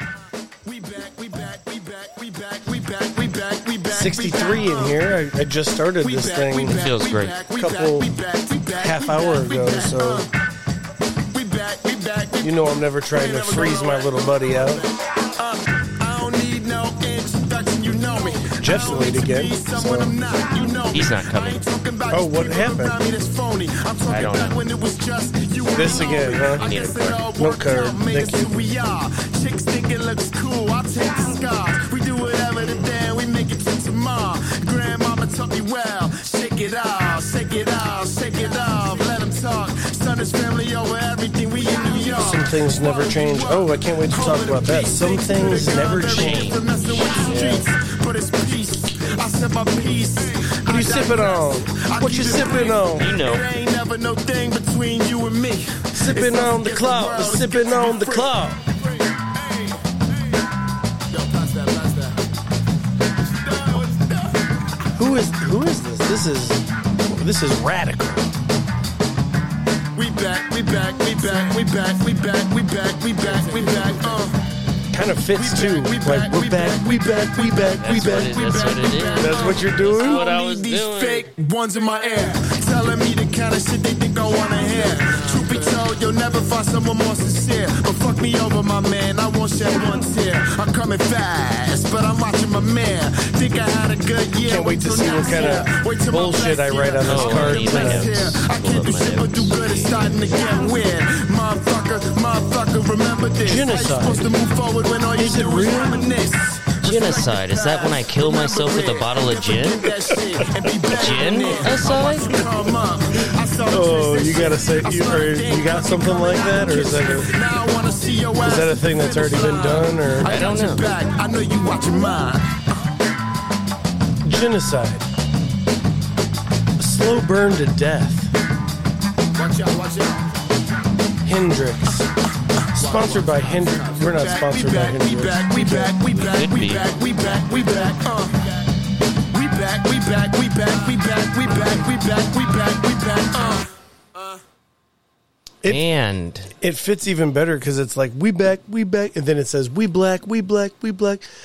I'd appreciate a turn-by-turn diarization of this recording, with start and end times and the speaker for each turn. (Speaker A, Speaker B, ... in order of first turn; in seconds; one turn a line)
Speaker A: 0.6-5.0
Speaker B: 3.9-6.8
Speaker A: 6.0-10.3
Speaker C: 6.8-7.3
Speaker B: 7.5-8.1
Speaker B: 8.8-10.3
Speaker A: 11.3-59.8
Speaker B: 12.4-14.9
Speaker B: 18.6-20.1
Speaker C: 20.9-21.6
Speaker B: 22.1-22.9
Speaker C: 24.1-24.6
Speaker B: 25.7-26.7
Speaker C: 26.5-27.2
Speaker B: 27.3-28.5
Speaker B: 42.1-46.6
Speaker C: 46.0-47.6
Speaker B: 47.3-47.6
Speaker B: 50.6-53.1
Speaker C: 53.0-53.5
Speaker B: 55.9-58.6
Speaker A: 61.1-62.2
Speaker A: 63.2-64.6
Speaker B: 65.0-68.3
Speaker A: 69.9-74.4
Speaker B: 74.9-78.4
Speaker A: 75.3-122.6
Speaker C: 77.8-81.3
Speaker B: 79.2-80.2
Speaker B: 94.4-98.2
Speaker C: 97.0-100.2
Speaker B: 103.4-104.3
Speaker B: 105.2-106.1
Speaker C: 106.8-109.9
Speaker C: 110.9-112.3
Speaker B: 113.7-117.3
Speaker B: 118.4-120.3
Speaker C: 120.2-120.8
Speaker B: 124.2-125.1
Speaker B: 126.8-128.3
Speaker A: 129.3-130.3
Speaker B: 131.2-132.1
Speaker A: 132.7-138.6
Speaker B: 132.7-135.9
Speaker C: 136.1-137.0
Speaker A: 139.3-143.7
Speaker C: 145.7-146.5
Speaker B: 146.6-151.2